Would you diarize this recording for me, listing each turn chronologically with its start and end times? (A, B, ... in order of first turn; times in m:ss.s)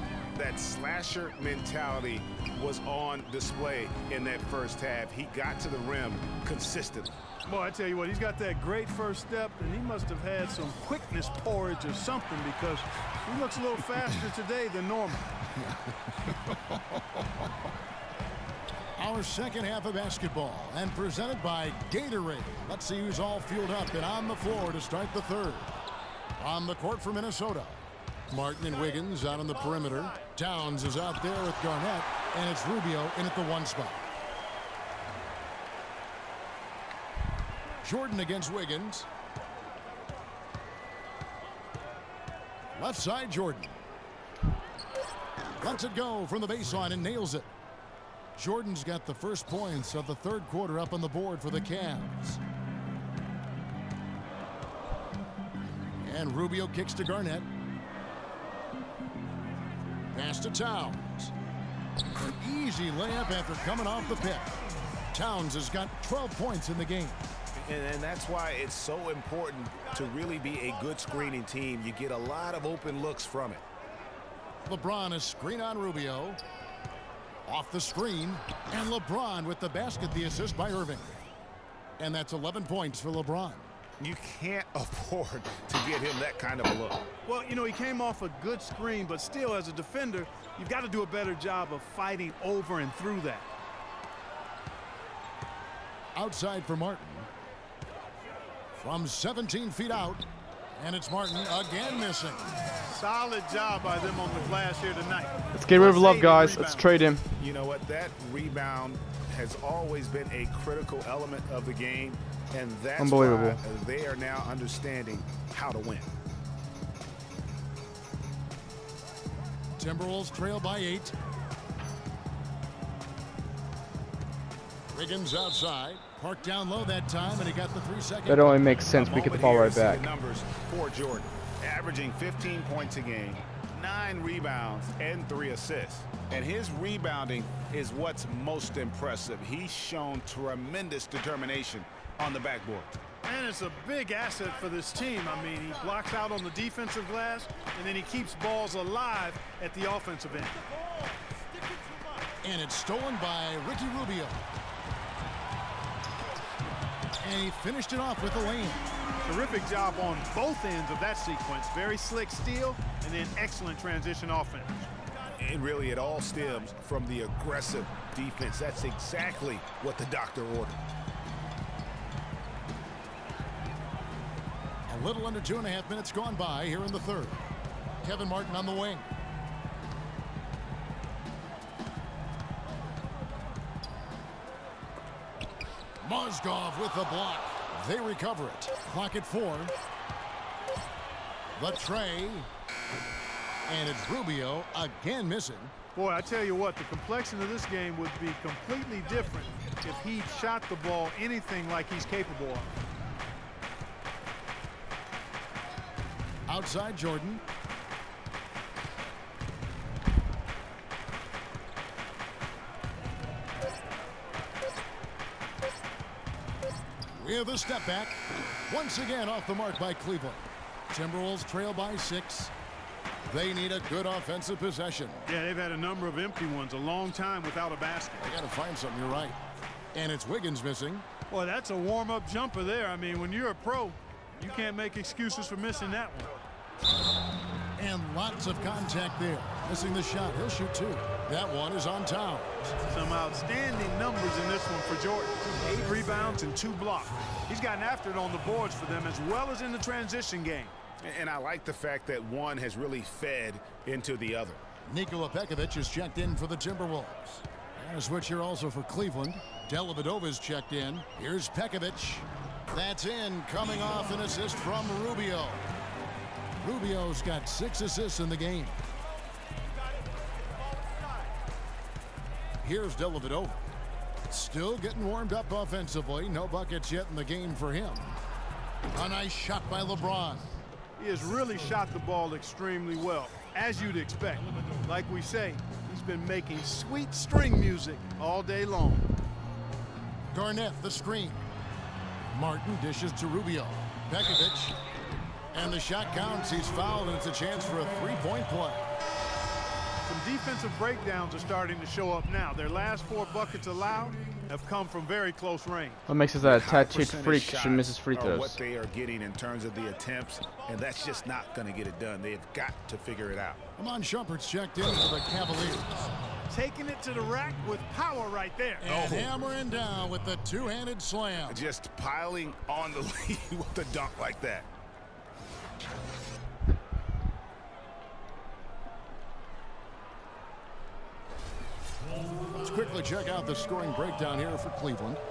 0:00.3-0:07.2 A
0:07.4-0:15.3 B
0:19.0-0:25.7 C
0:26.4-0:34.0 C
0:37.8-0:39.1 C
0:42.7-0:43.8 C
0:45.6-0:47.5 C
0:48.4-0:52.4 C
0:56.0-0:57.5 C
1:00.1-1:01.3 C
1:02.2-1:04.6 C
1:05.1-1:07.2 C
1:07.6-1:13.6 A
1:14.6-1:16.4 C
1:17.4-1:21.2 C
1:22.0-1:23.7 C
1:24.0-1:27.1 A
1:27.2-1:33.5 B
1:36.1-1:37.3 C
1:38.7-1:40.2 C
1:40.8-1:42.5 C
1:42.9-1:46.9 B
1:45.5-1:47.2 D
1:47.4-1:56.1 A
1:53.0-1:53.6 D
1:59.8-2:01.1 C
2:04.9-2:08.7 C
2:08.3-2:10.0 D
2:08.9-2:22.9 A
2:23.2-2:30.6 B
2:32.4-2:34.4 C
2:37.2-2:38.8 C
2:39.2-2:44.9 B
2:45.4-2:50.8 A
2:54.9-2:57.4 C
2:58.0-2:59.1 C
3:06.0-3:09.7 C
3:11.6-3:12.5 C
3:13.7-3:15.7 C
3:15.9-3:22.7 B
3:26.5-3:27.4 C
3:37.1-3:42.5 C
3:43.3-3:45.3 C
3:45.2-3:48.3 B
3:48.2-3:49.4 C
3:49.9-3:51.0 C
3:51.3-3:56.4 B
3:57.8-4:02.7 C
4:02.9-4:10.7 B
4:11.0-4:14.6 A
4:14.8-4:25.6 C
4:26.6-4:28.8 C
4:32.6-4:33.6 C
4:34.3-4:38.2 C
4:38.9-4:40.5 C
4:41.0-4:49.1 B
4:50.3-4:51.4 C
4:52.3-4:54.8 C
4:55.5-4:58.8 C
5:00.0-5:06.0 B
5:06.1-5:08.6 D
5:06.4-5:13.6 A
5:13.8-5:15.9 C
5:16.5-5:18.8 B
5:18.8-5:21.6 C
5:18.8-5:19.3 A
5:21.4-5:24.7 A
5:32.6-5:35.2 C